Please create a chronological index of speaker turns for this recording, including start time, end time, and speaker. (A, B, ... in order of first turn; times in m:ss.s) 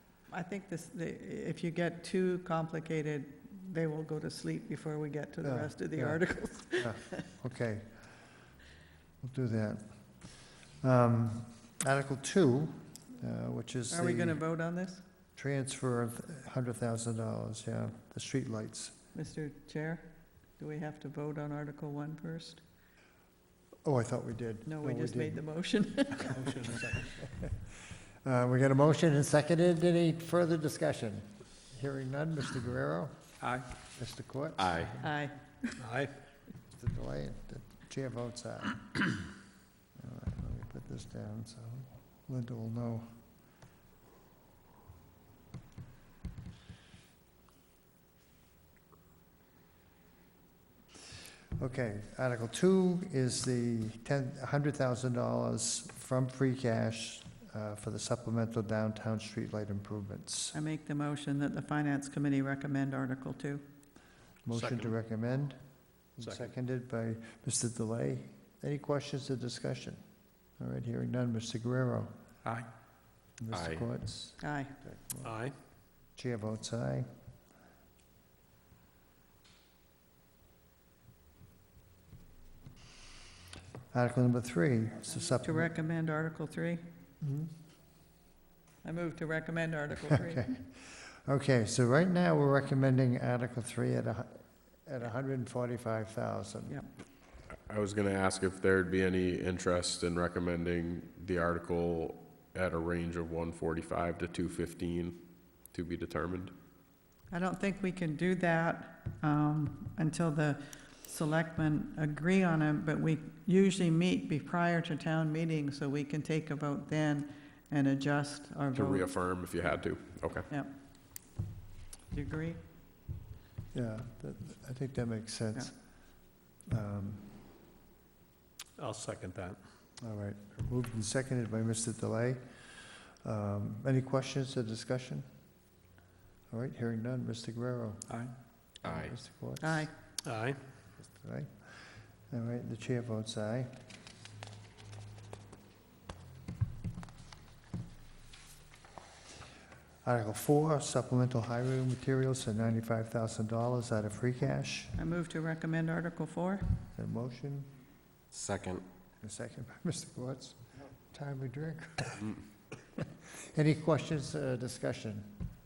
0:00.3-0:07.2 A
0:05.4-0:08.1 B
0:09.2-0:14.4 B
0:13.9-0:15.0 A
0:15.4-0:18.9 B
0:19.1-0:20.0 A
0:20.6-0:22.6 A
0:23.8-0:25.4 B
0:24.7-0:26.5 A
0:26.4-0:27.0 C
0:27.1-0:27.5 B
0:28.2-0:33.1 B
0:33.9-0:35.2 B
0:34.6-0:34.9 D
0:35.0-0:35.7 A
0:35.8-0:36.2 C
0:36.7-0:39.2 B
0:40.0-0:43.1 B
0:51.6-1:00.6 B
1:00.5-1:03.6 A
1:04.4-1:05.6 B
1:04.5-1:04.9 C
1:06.2-1:10.0 B
1:10.6-1:12.1 B
1:13.4-1:15.4 B
1:13.5-1:13.8 D
1:14.4-1:14.8 A
1:15.2-1:15.6 C
1:16.2-1:17.1 B
1:23.9-1:25.7 B
1:25.4-1:26.8 A
1:27.2-1:27.5 B
1:28.8-1:30.6 A
1:30.0-1:36.8 B
1:37.7-1:45.2 D
1:45.7-1:46.5 D
1:47.3-1:59.1 A
1:58.7-2:00.5 D
2:02.1-2:02.6 A
2:03.7-2:05.8 B
2:06.7-2:07.3 B
2:08.8-2:09.6 C
2:10.0-2:15.2 B
2:16.5-2:18.1 B
2:18.8-2:19.9 B
2:18.8-2:19.2 D
2:19.6-2:19.9 A
2:20.2-2:20.6 C
2:21.0-2:21.7 B
2:22.3-2:23.7 B
2:30.0-2:35.0 B
2:35.0-2:36.6 A
2:37.0-2:37.7 B
2:38.3-2:38.8 C
2:39.2-2:42.4 B
2:43.0-2:45.4 B